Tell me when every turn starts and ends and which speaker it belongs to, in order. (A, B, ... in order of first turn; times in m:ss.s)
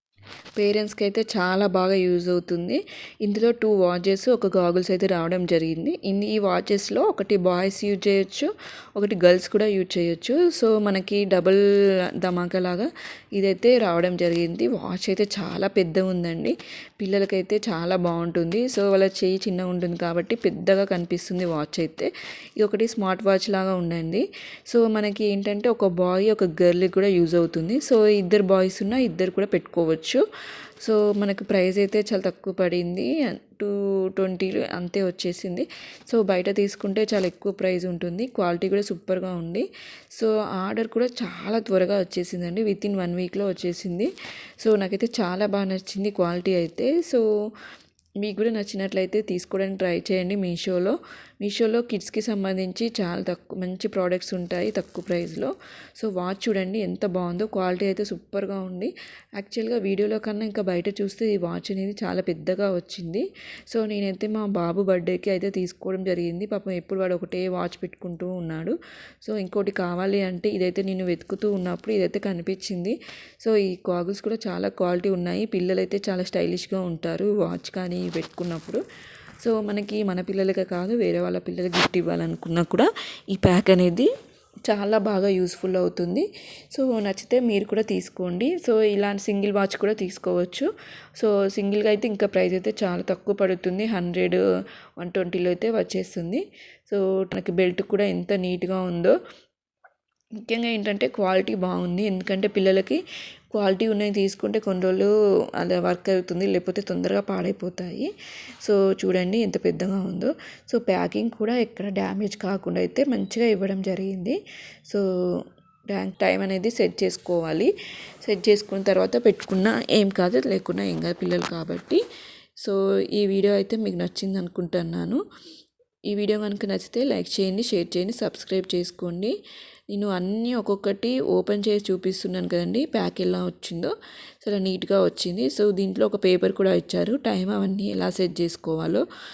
0:00.6-0:11.6 A
0:12.2-0:30.2 A
0:30.8-0:47.2 A
0:48.2-1:18.8 A
1:19.4-1:24.1 A
1:24.7-1:34.4 A
1:35.0-1:39.2 A
1:40.4-1:43.0 A
1:43.5-1:48.1 A
1:48.6-1:57.7 A
1:58.2-2:02.0 A
2:02.6-2:05.2 A
2:06.1-2:09.3 A
2:09.9-2:19.0 A